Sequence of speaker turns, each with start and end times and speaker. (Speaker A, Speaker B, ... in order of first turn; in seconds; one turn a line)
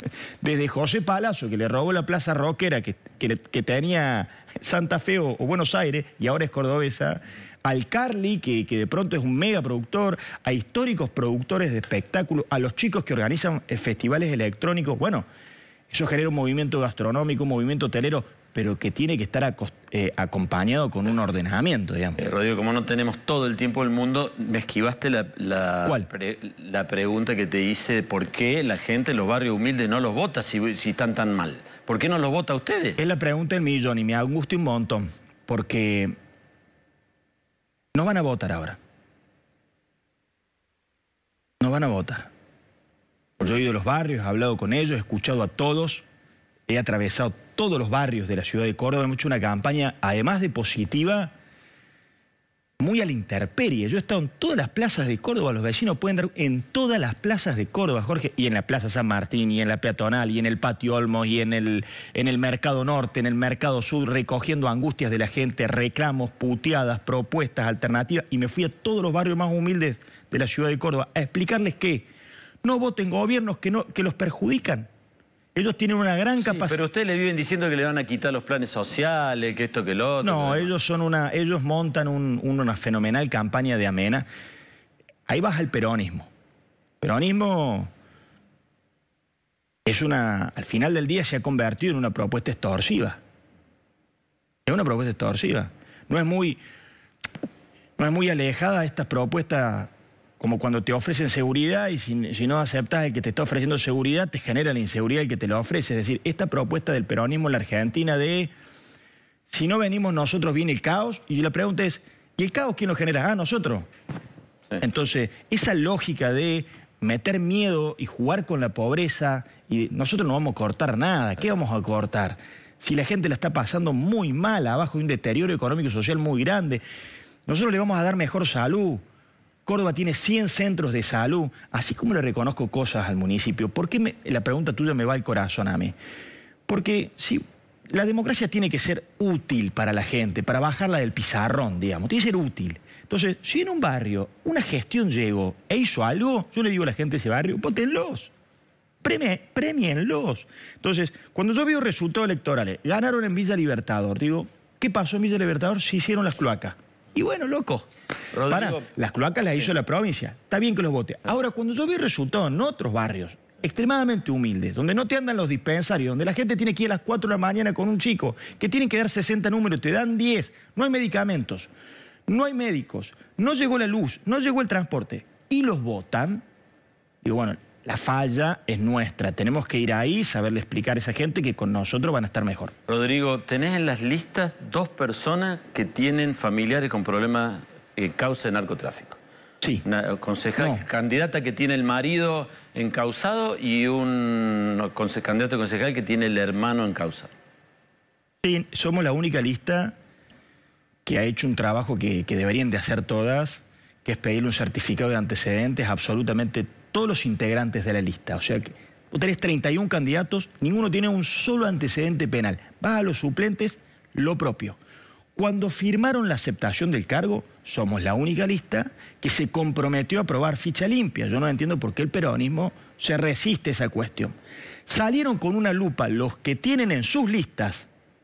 Speaker A: 0.4-15.2
Speaker A: 15.9-22.2
Speaker B: 22.2-33.0
Speaker A: 33.0-36.1
Speaker A: 37.9-38.8
Speaker A: 41.6-42.3
Speaker A: 43.4-46.0
Speaker A: 46.7-51.3
Speaker A: 52.8-72.1
Speaker A: 72.6-74.9
Speaker A: 75.5-76.8
Speaker B: 76.4-80.7
Speaker A: 80.2-84.3
Speaker A: 85.3-86.3
Speaker A: 87.0-87.9
Speaker A: 89.8-93.2
Speaker A: 94.7-96.6
Speaker A: 98.0-108.5
Speaker A: 109.5-113.9
Speaker A: 114.8-126.8
Speaker A: 127.5-129.0
Speaker A: 129.7-135.9
Speaker A: 136.7-148.3
Speaker A: 149.0-157.9
Speaker B: 158.3-158.9
Speaker A: 158.5-171.7
Speaker A: 172.3-176.4
Speaker A: 177.2-182.7
Speaker B: 182.9-189.2
Speaker B: 189.8-197.3
Speaker A: 190.6-190.8
Speaker A: 198.4-199.9
Speaker A: 201.0-214.8
Speaker A: 215.3-224.3
Speaker A: 224.9-227.9